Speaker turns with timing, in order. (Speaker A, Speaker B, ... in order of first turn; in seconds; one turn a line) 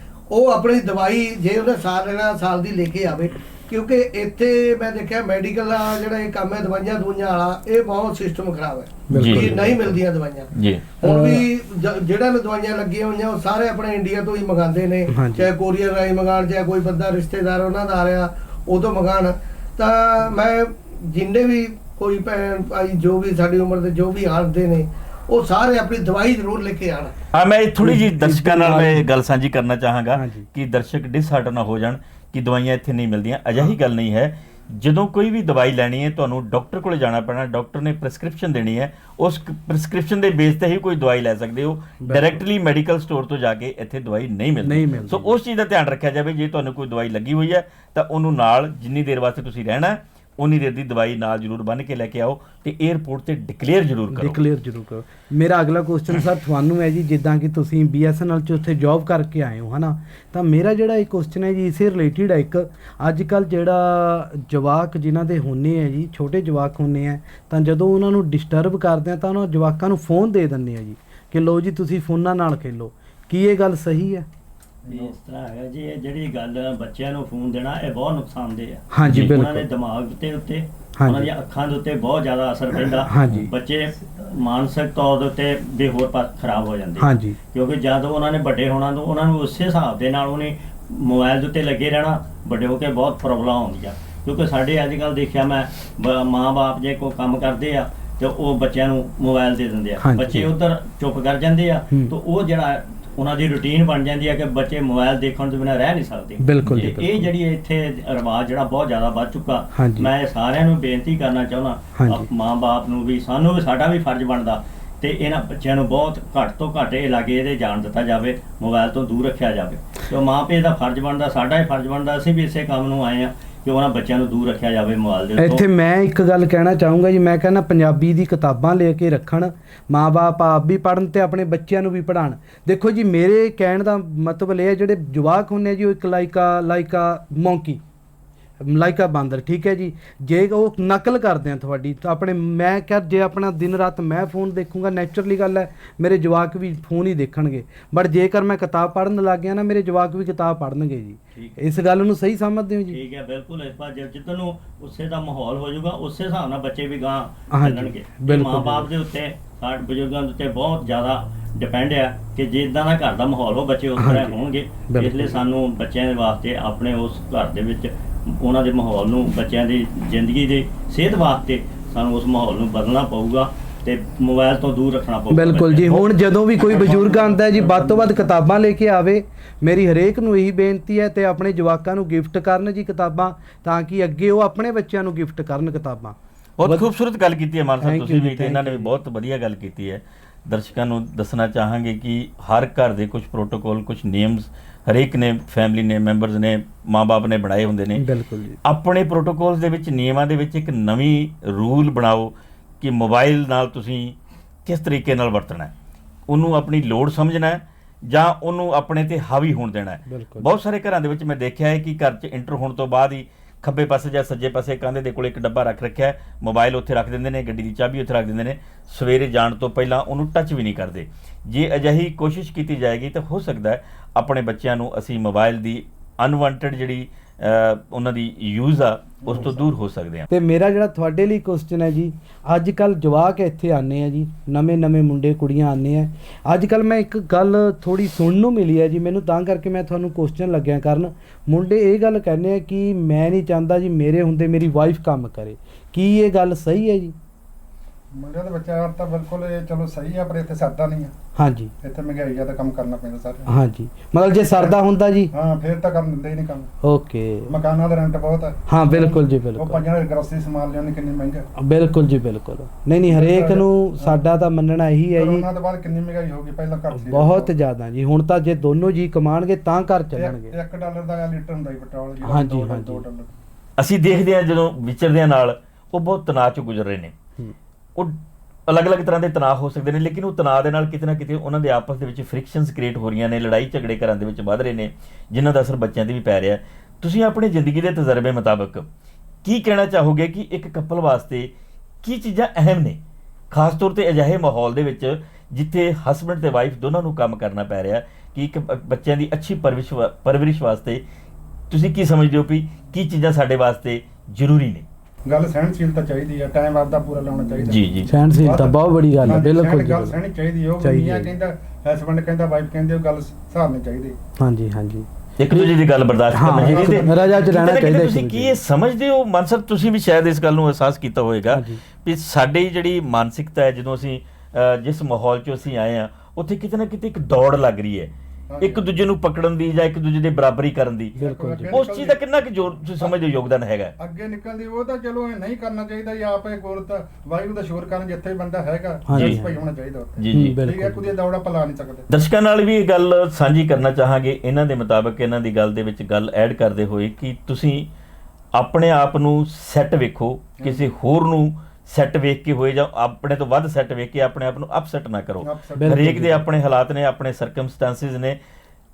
Speaker A: 0.3-27.1
Speaker B: 9.1-9.6
Speaker C: 9.1-10.0
Speaker B: 10.5-10.9
Speaker C: 11.0-11.4
Speaker C: 15.1-15.5
Speaker B: 27.3-54.4
Speaker C: 27.8-29.1
Speaker C: 30.1-30.5
Speaker C: 42.0-42.4
Speaker C: 44.6-45.4
Speaker C: 54.1-74.2
Speaker D: 74.8-75.1
Speaker E: 74.9-125.6
Speaker C: 78.9-79.7
Speaker C: 81.0-81.3
Speaker C: 83.0-83.5
Speaker C: 87.0-87.3
Speaker C: 100.0-100.4
Speaker C: 101.9-102.1
Speaker C: 106.4-107.3
Speaker C: 109.7-110.1
Speaker C: 111.9-112.3
Speaker C: 125.4-137.8
Speaker C: 138.6-153.0
Speaker E: 152.9-176.1
Speaker C: 157.5-158.9
Speaker C: 164.0-164.3
Speaker C: 164.9-165.3
Speaker C: 175.3-186.9
Speaker D: 176.6-178.3
Speaker B: 186.6-198.0
Speaker C: 187.8-188.9
Speaker C: 197.9-198.6
Speaker B: 198.6-205.7
Speaker B: 206.3-230.3
Speaker C: 210.1-210.5
Speaker D: 229.2-229.6
Speaker C: 230.3-247.1
Speaker D: 248.1-251.1
Speaker C: 251.3-251.7
Speaker D: 251.8-253.5
Speaker C: 253.5-255.3
Speaker D: 254.5-254.8
Speaker D: 255.3-256.7
Speaker C: 256.8-257.5
Speaker D: 257.5-261.4
Speaker C: 258.7-259.8
Speaker C: 261.6-265.4
Speaker D: 263.1-264.2
Speaker D: 265.1-267.5
Speaker C: 266.9-270.5
Speaker D: 270.1-273.3
Speaker C: 272.2-273.0
Speaker B: 273.8-277.1
Speaker B: 277.9-288.9
Speaker B: 289.4-301.0
Speaker B: 301.7-304.9
Speaker D: 305.3-314.2
Speaker B: 307.7-308.1
Speaker C: 308.1-310.2
Speaker C: 310.8-311.3
Speaker C: 314.4-315.7
Speaker B: 315.4-331.1
Speaker C: 316.3-318.6
Speaker D: 316.6-317.5
Speaker C: 321.5-321.8
Speaker D: 328.5-328.9
Speaker D: 331.2-332.2
Speaker C: 331.2-331.8
Speaker B: 331.7-333.9
Speaker D: 334.0-342.1
Speaker C: 339.1-339.6
Speaker B: 339.1-339.4
Speaker B: 340.2-340.6
Speaker C: 340.3-341.1
Speaker B: 342.1-347.9
Speaker B: 348.5-358.4
Speaker D: 350.6-350.9
Speaker D: 355.4-356.2
Speaker C: 355.8-356.4